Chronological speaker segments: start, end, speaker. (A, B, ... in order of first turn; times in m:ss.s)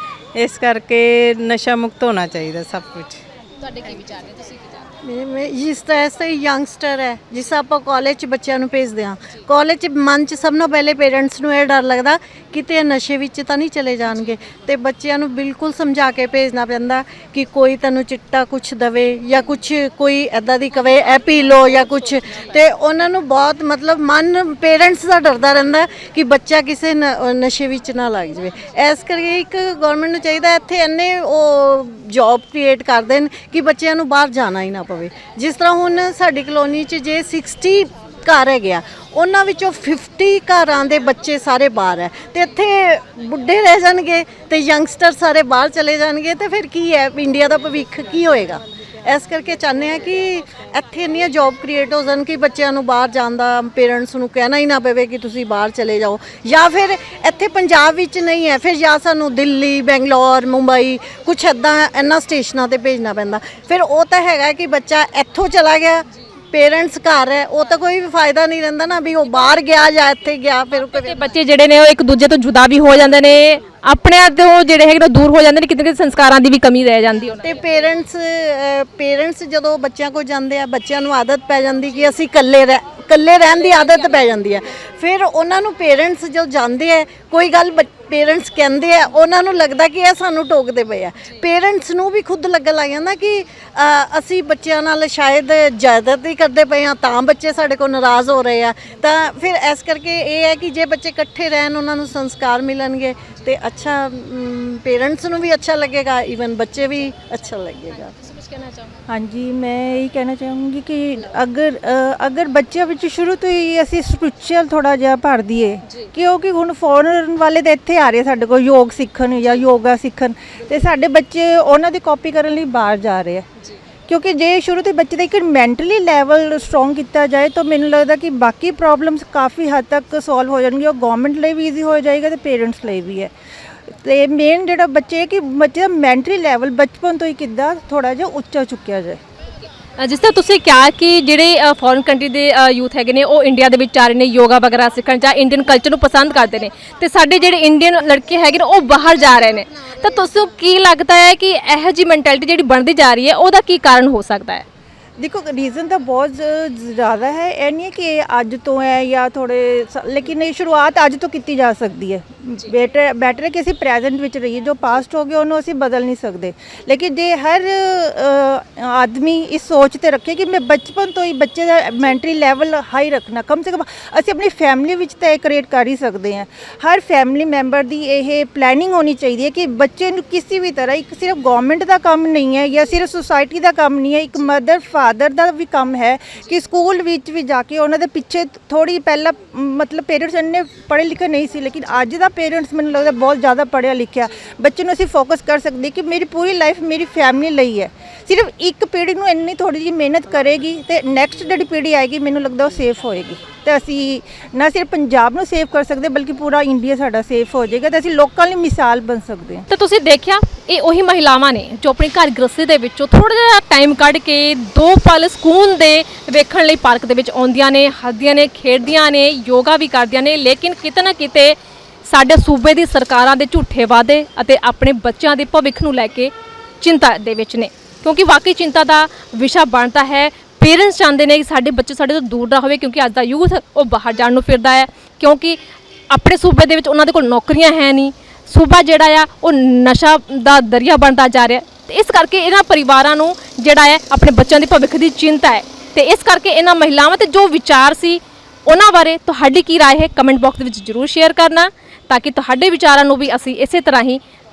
0:00.4-0:03.2 A
0:03.6-0:04.8 B
0:05.0-1:11.3 C
1:10.8-1:17.5 B
1:17.4-1:48.1 C
1:48.4-1:48.9 B
1:49.1-2:03.4 D
2:04.1-2:13.3 D
2:14.0-2:19.2 D
2:20.0-2:34.6 B
2:35.2-3:29.6 D
3:29.7-3:55.6 B
3:56.1-4:14.2 B